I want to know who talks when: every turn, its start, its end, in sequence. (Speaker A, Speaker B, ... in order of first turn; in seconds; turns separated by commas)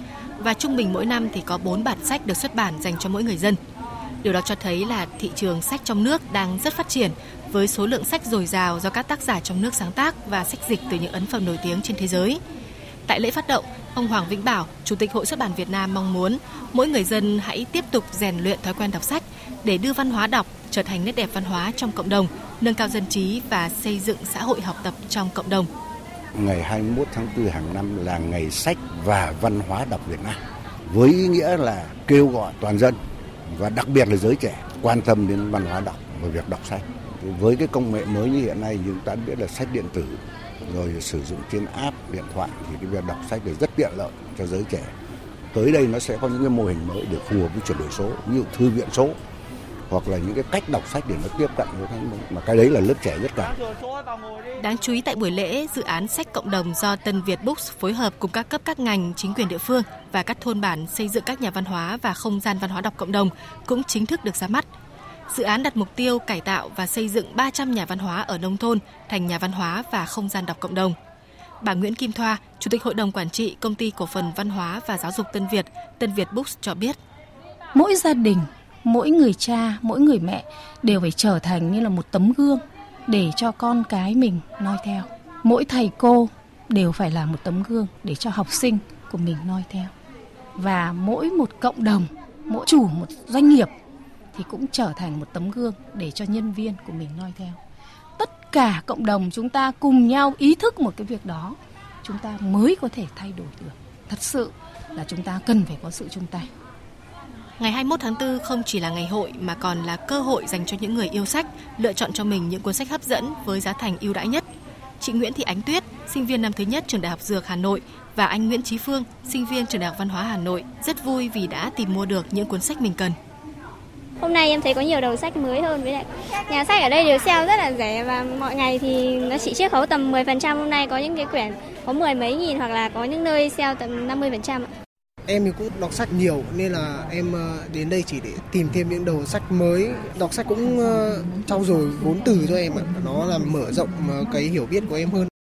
Speaker A: 0.4-3.6, Speaker A: 4.2-12.4, Speaker A: 13.1-25.7, Speaker B: 26.4-33.0, Speaker B: 33.5-44.9, Speaker B: 45.5-49.1, Speaker B: 49.9-53.6, Speaker A: 54.6-64.7, Speaker A: 65.3-71.0, Speaker A: 71.6-77.0, Speaker C: 77.7-89.9, Speaker C: 90.6-93.7, Speaker C: 94.3-97.6, Speaker C: 98.2-106.5, Speaker A: 107.6-114.5, Speaker A: 115.0-123.2, Speaker D: 124.2-134.7, Speaker E: 135.3-145.3